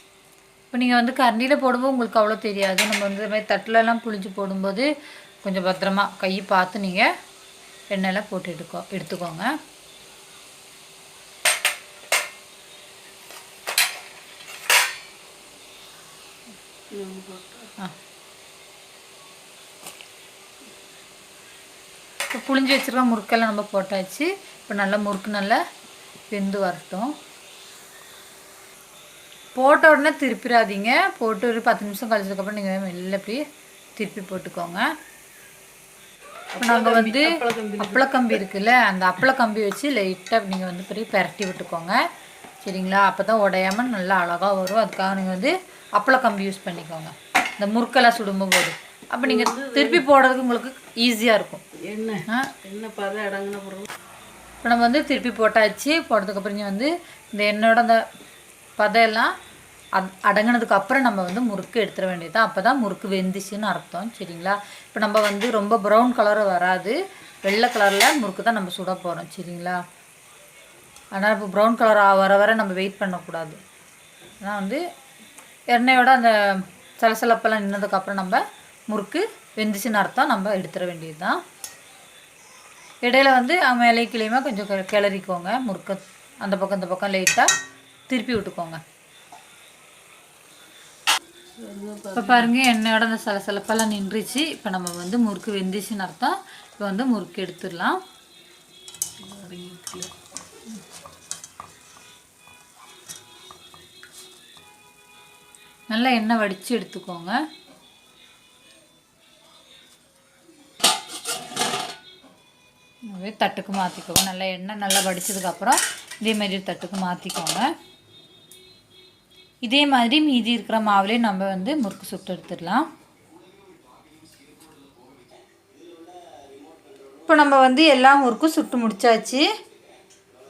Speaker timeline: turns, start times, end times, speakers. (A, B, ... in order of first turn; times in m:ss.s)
0:00.7-0:04.9 A
0:05.4-0:07.1 A
0:07.9-0:09.5 A
0:16.9-0:17.7 B
0:22.3-0:25.6 A
0:26.3-0:27.1 A
0:29.6-0:33.4 A
0:34.0-0:34.9 A
0:36.5-0:38.2 B
0:36.6-0:42.0 A
0:42.6-0:51.6 A
0:49.2-0:50.0 B
0:51.8-0:53.9 B
0:54.6-0:58.0 A
0:58.8-0:59.3 A
1:00.0-1:09.8 A
1:11.1-1:13.6 A
1:14.4-1:14.8 A
1:15.7-1:21.4 A
1:23.0-1:27.5 A
1:28.1-1:28.8 A
1:31.6-1:32.5 B
1:32.1-1:38.0 A
1:39.2-1:40.1 B
1:45.9-1:47.4 A
1:53.1-1:57.7 A
1:59.6-2:02.9 A
2:07.3-2:09.5 A